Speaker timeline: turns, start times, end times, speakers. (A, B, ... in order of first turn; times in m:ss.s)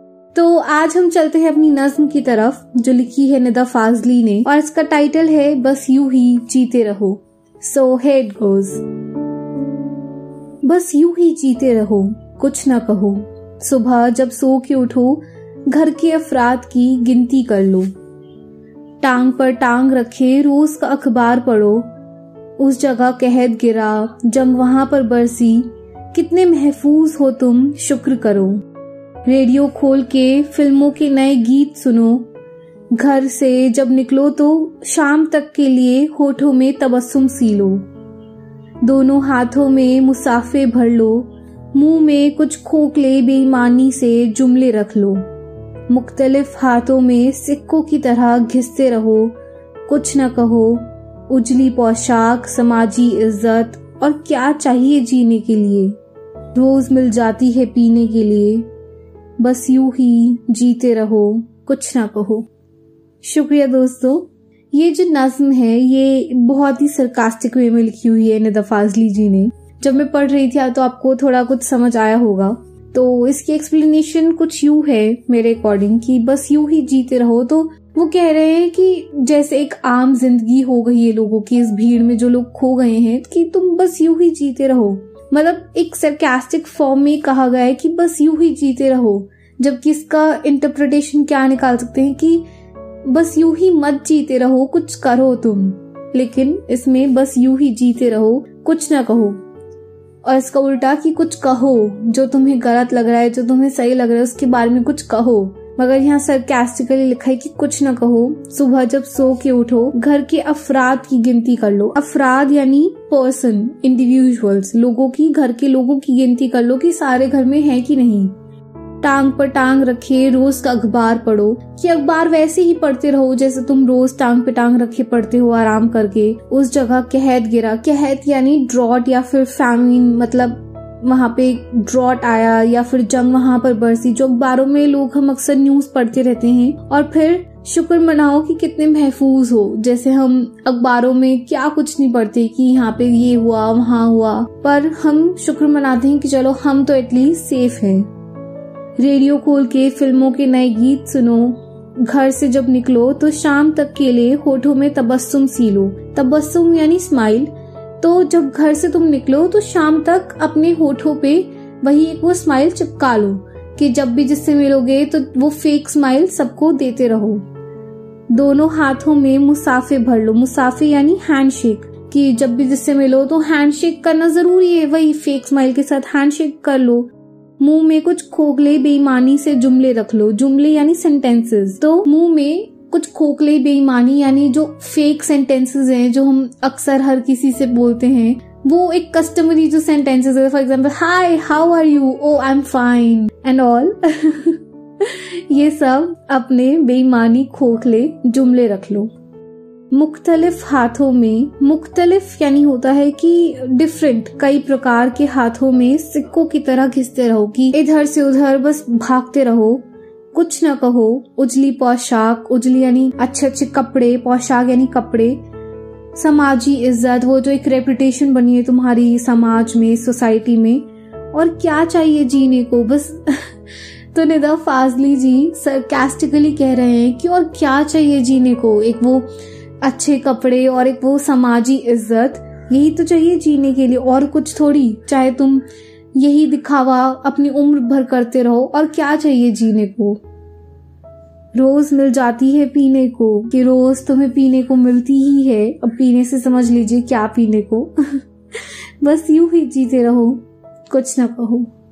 0:00.3-0:08.8 A
0:10.6-0:17.9 A
0:19.0-0:21.9 A
0:22.6-0:28.6 A
0:29.2-0:32.2 A
0:32.9-0:37.8 A
0:38.8-0:45.2 A
0:45.9-0:49.4 A
0:49.9-0:56.0 A
0:56.5-0:58.7 A
0:59.4-1:02.5 A
1:03.2-1:32.4 A
1:33.0-1:39.4 A
1:40.2-1:58.3 A
1:59.0-2:28.1 A
2:29.0-2:47.4 A
2:48.3-3:19.1 A
3:19.9-3:35.4 A
3:36.2-3:49.3 A
3:49.8-4:00.2 A
4:01.5-4:11.7 A